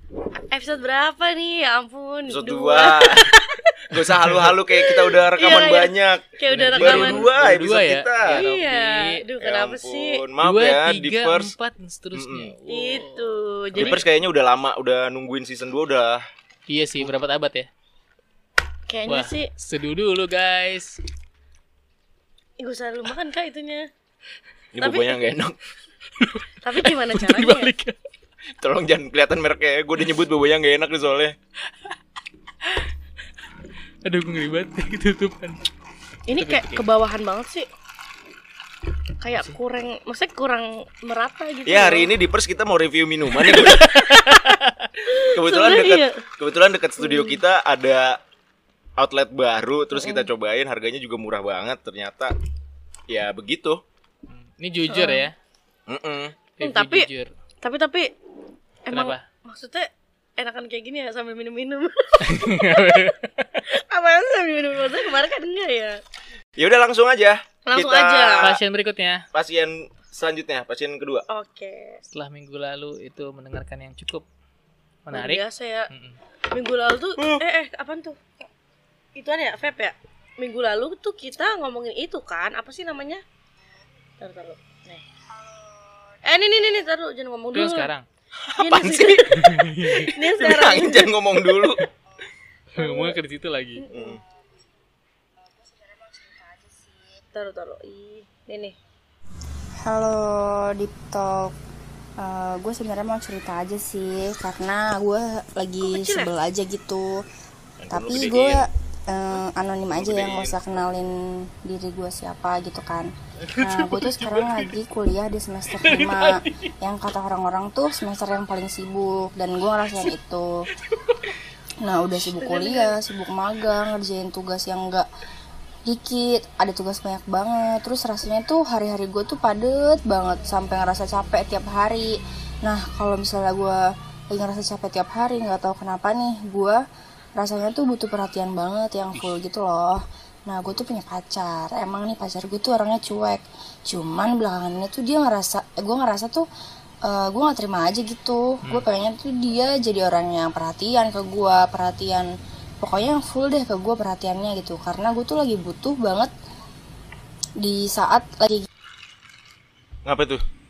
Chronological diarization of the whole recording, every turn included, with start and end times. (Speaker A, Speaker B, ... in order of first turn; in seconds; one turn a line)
Speaker A: 0.5-4.0
Speaker B: 2.3-3.3
Speaker B: 3.9-8.5
Speaker C: 4.2-4.5
Speaker A: 4.7-7.3
Speaker C: 6.5-9.2
Speaker A: 8.3-10.2
Speaker B: 9.4-11.5
Speaker C: 10.4-13.2
Speaker B: 12.1-12.5
Speaker A: 12.7-14.0
Speaker B: 13.8-16.2
Speaker C: 16.7-17.7
Speaker A: 18.9-19.5
Speaker C: 19.1-21.0
Speaker A: 22.6-23.9
Speaker B: 24.8-25.6
Speaker A: 24.8-25.1
Speaker C: 26.2-28.0
Speaker A: 26.6-27.7
Speaker B: 28.6-31.4
Speaker C: 32.6-32.9
Speaker C: 34.0-35.6
Speaker A: 36.3-37.7
Speaker C: 36.4-36.8
Speaker A: 39.2-42.1
Speaker B: 41.7-43.9
Speaker C: 43.5-44.9
Speaker A: 43.5-46.2
Speaker B: 45.2-48.2
Speaker A: 47.0-47.4
Speaker B: 49.0-52.3
Speaker A: 50.0-50.3
Speaker B: 53.1-53.8
Speaker C: 54.3-55.4
Speaker A: 54.9-55.3
Speaker B: 55.9-56.4
Speaker C: 56.6-57.3
Speaker A: 56.6-57.1
Speaker A: 57.6-58.1
Speaker A: 58.9-63.1
Speaker C: 58.9-59.2
Speaker C: 62.2-63.6
Speaker A: 63.7-66.0
Speaker B: 66.6-68.5
Speaker A: 67.7-68.5
Speaker C: 68.4-69.2
Speaker B: 69.3-71.2
Speaker A: 71.3-72.0
Speaker C: 72.1-74.2
Speaker C: 75.1-76.2
Speaker A: 75.1-75.9
Speaker A: 76.5-78.2
Speaker A: 79.2-83.2
Speaker A: 84.2-85.0
Speaker A: 86.2-87.9
Speaker C: 87.5-88.1
Speaker B: 88.4-91.9
Speaker A: 88.6-89.4
Speaker C: 89.3-90.2
Speaker A: 89.9-91.1
Speaker C: 92.7-93.9
Speaker A: 92.8-93.2
Speaker A: 93.8-94.2
Speaker B: 93.9-94.2
Speaker D: 96.0-96.4
Speaker A: 97.3-98.8
Speaker D: 99.8-101.5
Speaker D: 102.2-107.2
Speaker A: 105.8-106.3
Speaker B: 107.8-108.6
Speaker D: 107.9-120.7
Speaker B: 109.9-110.7
Speaker C: 113.4-114.7
Speaker C: 115.7-116.7
Speaker D: 121.8-125.1
Speaker A: 122.3-123.0
Speaker D: 125.9-133.8
Speaker D: 134.3-136.8
Speaker D: 137.4-146.4
Speaker D: 147.0-156.3
Speaker D: 157.6-158.7
Speaker B: 160.1-160.4